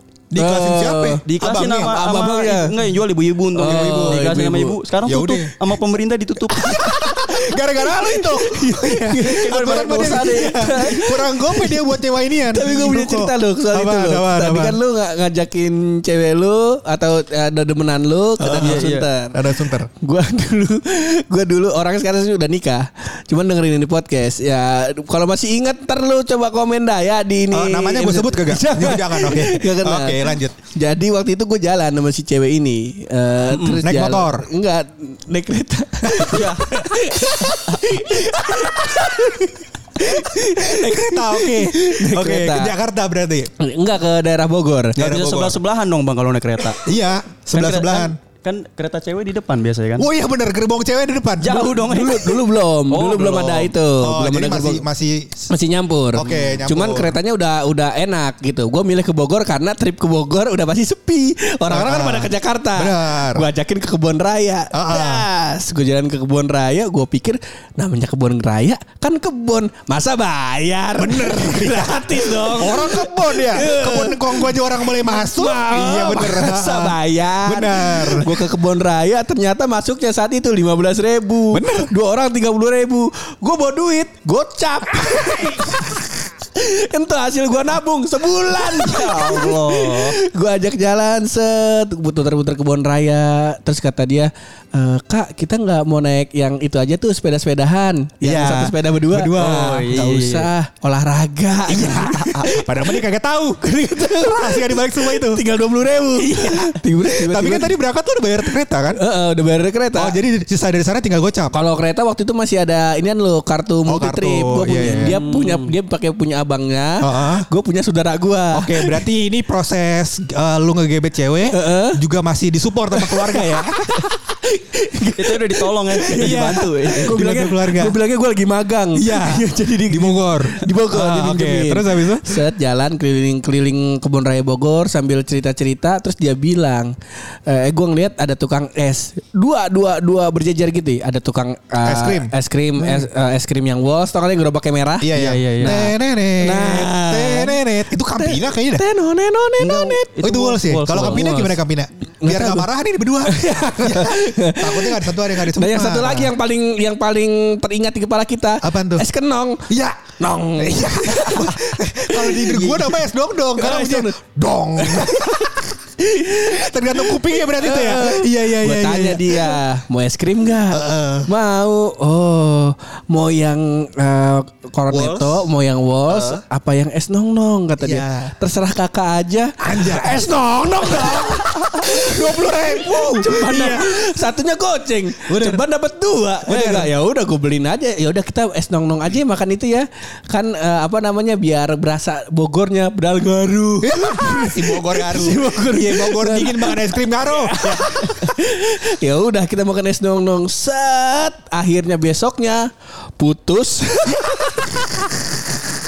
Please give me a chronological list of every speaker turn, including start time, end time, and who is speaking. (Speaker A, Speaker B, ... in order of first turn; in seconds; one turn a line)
Speaker A: 0.3-2.0
Speaker B: 0.4-1.2
Speaker C: 1.2-6.8
Speaker B: 1.8-2.8
Speaker B: 3.6-4.8
Speaker A: 3.6-4.4
Speaker A: 5.0-5.5
Speaker A: 6.5-14.8
Speaker B: 6.5-11.9
Speaker C: 9.2-11.1
Speaker B: 12.4-42.7
Speaker A: 18.4-19.9
Speaker C: 18.6-19.1
Speaker A: 27.5-30.6
Speaker C: 33.5-33.8
Speaker A: 33.8-34.5
Speaker A: 36.1-36.5
Speaker C: 36.3-36.7
Speaker A: 38.1-39.2
Speaker A: 40.0-43.5
Speaker B: 43.6-45.0
Speaker A: 45.0-45.6
Speaker C: 45.0-46.8
Speaker A: 46.8-48.2
Speaker C: 47.5-50.1
Speaker A: 50.0-51.9
Speaker C: 51.4-53.7
Speaker B: 51.8-54.8
Speaker A: 54.0-55.5
Speaker B: 55.5-103.0
Speaker A: 56.1-57.2
Speaker C: 56.2-56.6
Speaker A: 61.7-63.5
Speaker A: 64.7-65.2
Speaker A: 71.0-78.3
Speaker A: 81.5-81.9
Speaker C: 88.5-90.2
Speaker A: 98.2-100.0
Speaker C: 99.3-100.5
Speaker A: 101.7-105.4
Speaker B: 103.6-107.8
Speaker A: 106.2-109.0
Speaker B: 109.0-110.2
Speaker A: 110.0-111.5
Speaker B: 111.5-119.0
Speaker A: 113.9-115.2
Speaker C: 114.8-115.7
Speaker A: 117.0-117.5
Speaker A: 118.5-124.0
Speaker B: 121.5-122.0
Speaker B: 122.9-136.9
Speaker C: 125.2-127.6
Speaker A: 126.2-128.0
Speaker A: 128.9-132.4
Speaker B: 137.5-147.6
Speaker A: 141.8-143.1
Speaker A: 145.0-148.8
Speaker C: 145.2-145.8
Speaker B: 148.2-150.1
Speaker C: 149.6-151.3
Speaker A: 150.2-156.3
Speaker B: 151.0-151.6
Speaker B: 152.2-152.7
Speaker B: 153.2-162.8
Speaker A: 158.6-159.0
Speaker A: 159.7-169.6
Speaker C: 162.6-162.9
Speaker B: 163.6-164.2
Speaker B: 164.8-205.2
Speaker A: 170.7-171.3
Speaker A: 174.9-175.5
Speaker A: 176.1-176.4
Speaker A: 177.8-178.3
Speaker A: 179.6-184.2
Speaker A: 185.2-185.6
Speaker A: 186.4-186.9
Speaker A: 193.8-198.2